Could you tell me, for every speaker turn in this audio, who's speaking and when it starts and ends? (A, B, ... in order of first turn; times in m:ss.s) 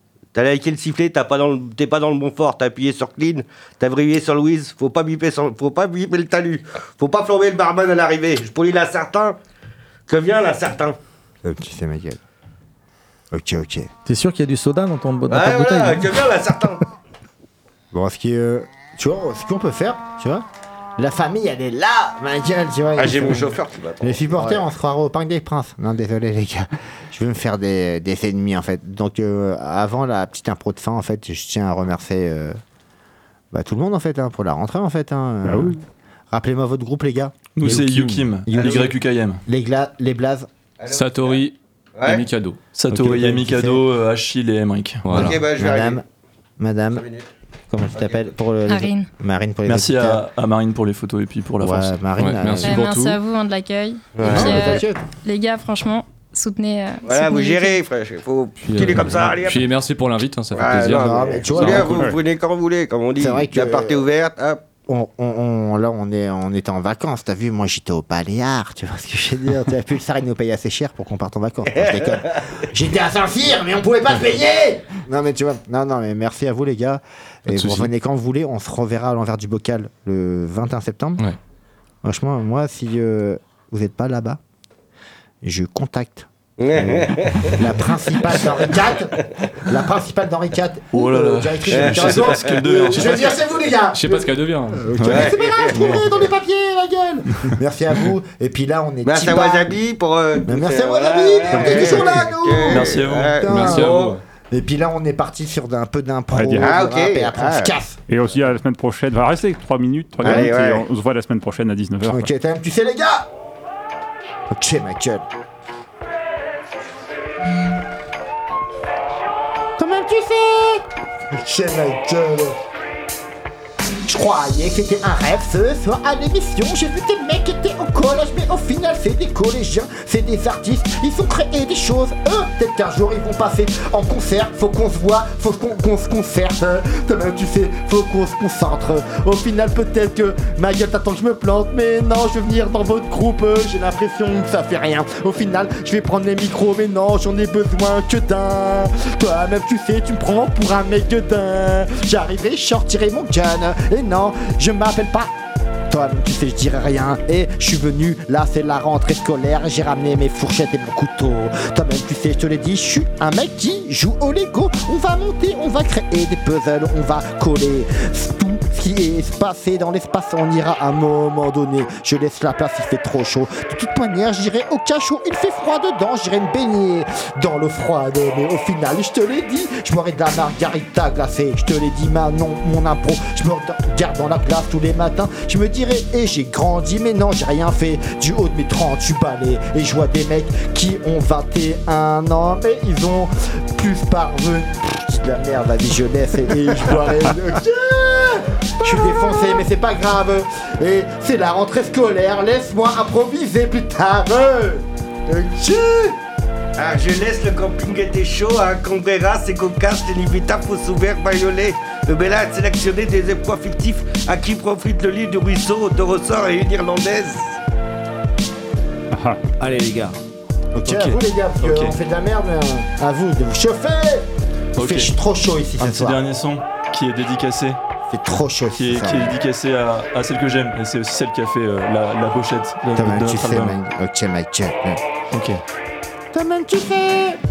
0:00.3-0:09.4 A
0:10.1-0:11.0 A
0:11.4-0:12.2 B
0:13.3-0:13.9 B
0:14.1-0:16.2 C
0:15.3-0:16.8 A
0:17.9-0:20.4 B
0:21.0-0:32.6 B
0:23.0-0:24.7 A
0:33.5-0:35.8 B
0:35.4-0:35.8 D
0:36.3-0:37.7 B
0:37.6-0:39.4 E
0:37.6-0:38.3 F
0:38.5-0:40.5 B
0:38.6-0:38.9 A
0:40.8-0:41.4 A
0:40.9-0:42.6 F
0:42.0-0:42.2 A
0:42.8-0:45.1 E
0:42.9-0:43.8 B
0:45.0-0:45.4 F
0:45.1-0:46.0 A
0:45.1-0:46.0 B
0:46.6-0:47.0 B
0:46.9-0:47.3 A
0:47.7-0:50.2 B
0:47.9-0:48.3 A
0:48.7-0:49.1 G
0:49.6-0:52.0 E
0:51.6-0:52.9 B
0:52.2-0:53.2 F
0:52.6-0:57.8 G
0:54.2-0:54.8 A
0:54.2-0:55.0 B
0:57.0-0:59.7 A
0:58.6-1:02.0 F
1:00.5-1:04.6 A
1:00.7-1:02.2 B
1:03.2-1:04.0 B
1:04.9-1:21.2 B
1:11.8-1:12.5 A
1:17.5-1:17.9 F
1:22.0-1:24.4 B
1:25.4-1:39.8 B
1:26.6-1:28.7 A
1:30.9-1:33.4 E
1:31.7-1:33.1 A
1:33.9-1:34.8 F
1:35.0-1:36.3 A
1:39.0-1:44.2 A
1:40.4-1:48.0 B
1:42.7-1:43.4 E
1:43.5-1:44.2 F
1:46.3-1:46.8 D
1:46.6-1:47.7 A
1:48.1-1:52.3 D
1:50.2-1:50.6 B
1:50.2-1:50.8 A
1:52.1-1:53.3 B
1:54.5-1:55.2 B
1:59.8-2:02.6 B
2:04.1-2:35.3 B
2:35.9-3:26.2 B
3:26.8-3:37.6 A
3:39.1-3:39.4 D
3:39.6-3:40.2 C
3:40.7-3:46.2 B
3:40.9-3:42.0 E
3:44.8-3:45.1 E
3:45.8-3:47.8 E
3:48.1-3:49.4 B
3:48.8-3:53.8 E
3:53.0-3:55.0 B
3:55.3-3:55.6 E
3:56.3-3:57.4 B